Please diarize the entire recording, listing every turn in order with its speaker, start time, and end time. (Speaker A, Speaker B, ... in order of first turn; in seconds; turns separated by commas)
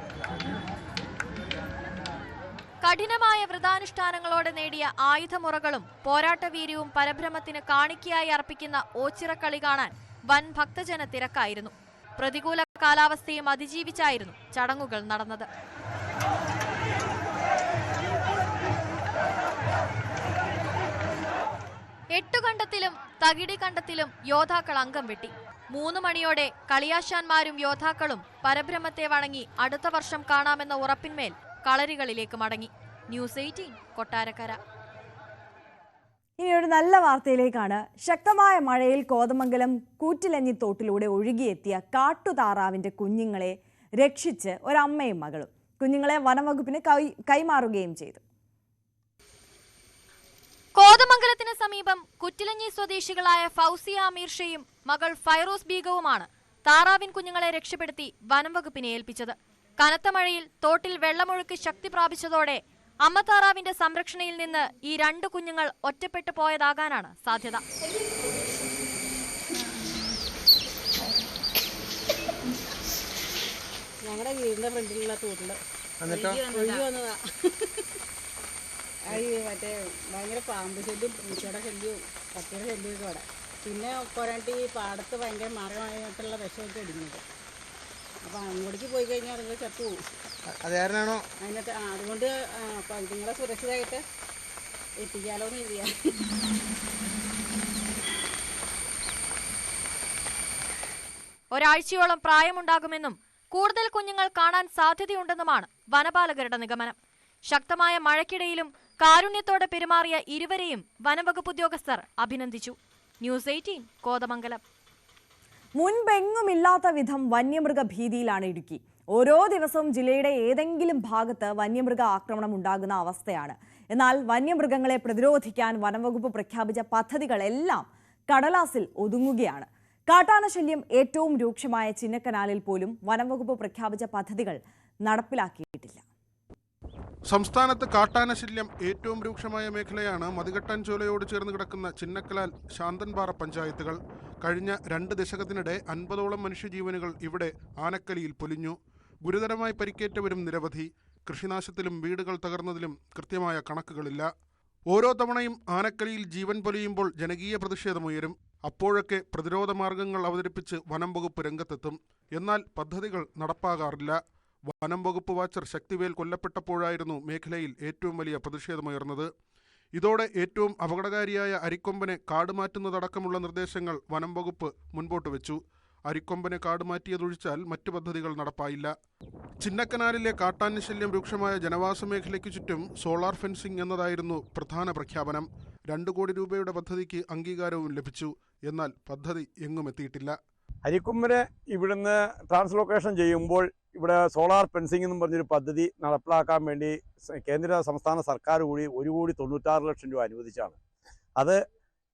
Speaker A: 2.8-15.5, Speaker A: 22.1-34.6, Speaker B: 36.4-48.2, Speaker A: 50.8-67.6, Speaker C: 74.1-75.5, Speaker C: 76.1-77.0, Speaker C: 79.1-87.2, Speaker C: 88.3-89.8, Speaker C: 91.5-92.3, Speaker C: 92.8-94.0, Speaker C: 95.1-95.8, Speaker A: 101.5-106.9, Speaker A: 107.5-114.6, Speaker B: 115.8-136.0, Speaker D: 137.3-154.3, Speaker D: 154.9-169.3, Speaker D: 169.9-178.9, Speaker D: 179.6-190.4, Speaker E: 190.8-200.8